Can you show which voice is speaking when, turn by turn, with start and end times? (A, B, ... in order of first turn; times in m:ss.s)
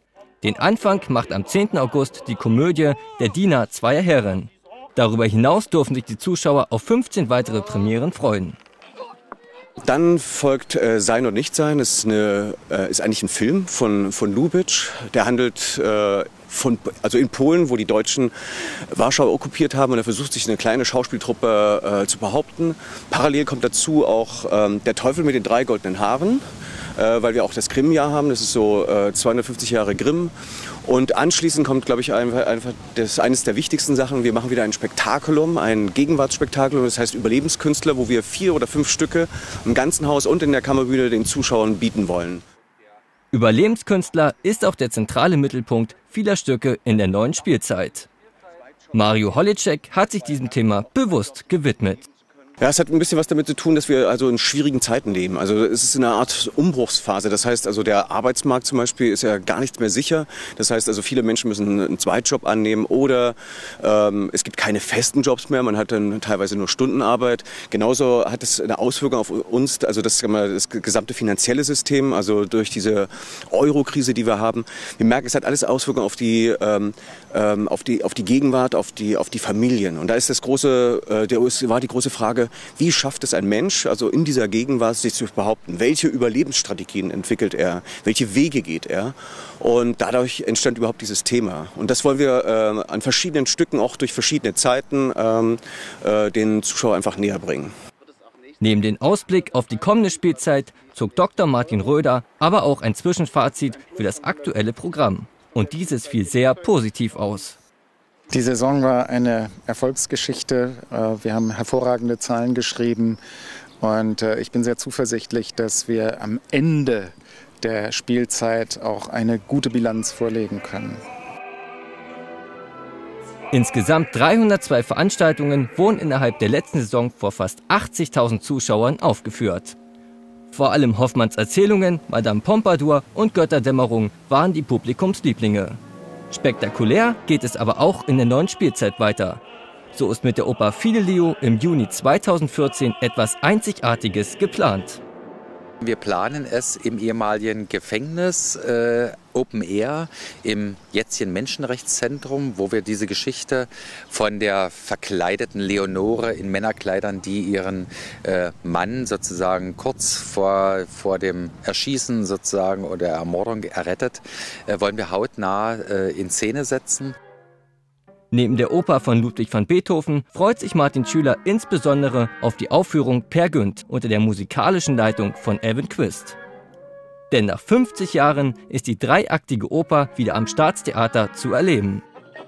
0:00.4-0:08.6 A
0:09.8-0:18.3 B
0:18.9-0:26.4 B
0:27.0-0:30.3 B
0:30.8-0:42.4 B
0:43.3-0:48.1 A
0:48.9-0:52.0 A
0:52.6-1:37.7 B
1:38.6-1:47.6 A
1:48.3-1:53.2 C
1:53.8-2:01.0 C
2:03.5-2:09.8 A
2:10.5-2:19.4 A
2:19.9-2:25.0 A
2:25.8-2:47.2 D
2:48.3-2:56.4 A
2:57.3-3:02.0 A